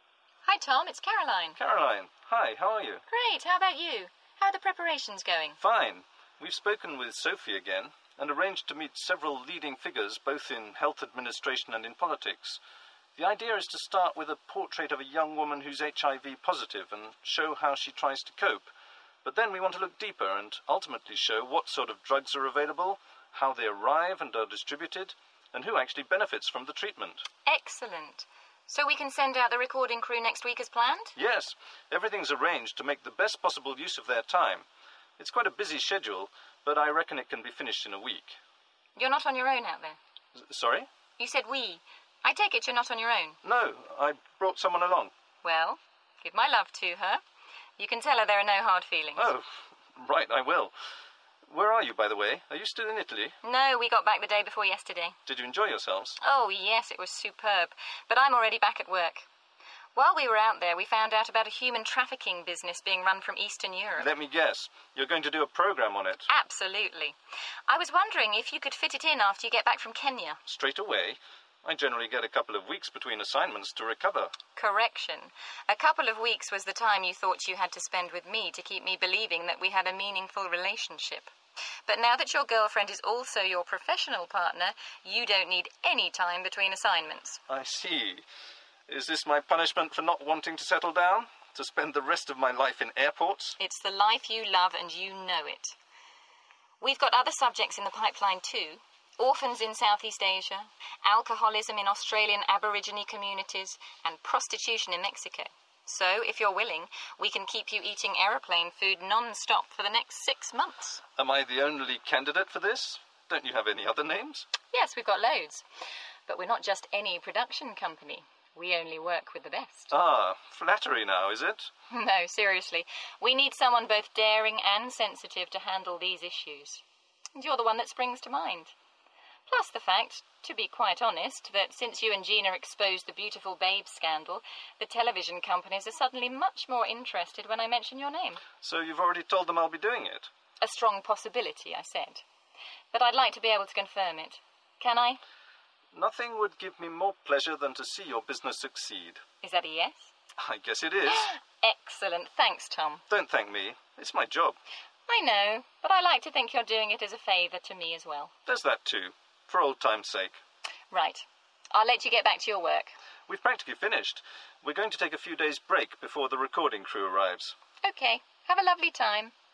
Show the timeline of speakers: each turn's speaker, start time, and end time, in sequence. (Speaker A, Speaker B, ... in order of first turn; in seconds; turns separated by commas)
Speaker A: 0.5-1.6, Speaker B: 1.6-3.0, Speaker A: 3.1-5.6, Speaker B: 5.6-12.6, Speaker B: 13.2-18.7, Speaker B: 19.2-27.2, Speaker A: 27.5-31.1, Speaker B: 31.2-34.7, Speaker B: 35.2-38.4, Speaker A: 39.0-40.0, Speaker B: 40.4-40.9, Speaker A: 41.2-43.4, Speaker B: 43.4-45.1, Speaker A: 45.4-47.2, Speaker A: 47.8-49.3, Speaker B: 49.2-50.7, Speaker B: 51.5-53.4, Speaker A: 53.4-55.2, Speaker B: 55.3-56.2, Speaker A: 56.2-59.3, Speaker A: 60.0-64.1, Speaker B: 64.0-66.3, Speaker A: 66.3-67.2, Speaker A: 67.7-70.4, Speaker B: 70.5-74.3, Speaker A: 74.6-81.3, Speaker A: 81.9-87.4, Speaker B: 87.5-88.2, Speaker B: 88.9-93.6, Speaker A: 93.6-95.8, Speaker A: 96.8-111.0, Speaker B: 111.2-114.5, Speaker A: 114.7-115.7, Speaker A: 116.3-119.9, Speaker B: 119.9-121.7, Speaker A: 121.9-126.8, Speaker A: 127.3-128.7, Speaker A: 129.5-138.4, Speaker B: 138.6-140.3, Speaker A: 140.6-142.2, Speaker A: 142.9-145.2, Speaker B: 145.9-149.2, Speaker A: 149.4-150.1, Speaker B: 150.4-151.3, Speaker A: 151.1-153.0, Speaker B: 153.1-154.6, Speaker A: 155.1-158.3, Speaker B: 158.5-160.4, Speaker A: 160.9-162.9, Speaker B: 163.3-167.6, Speaker A: 167.8-169.3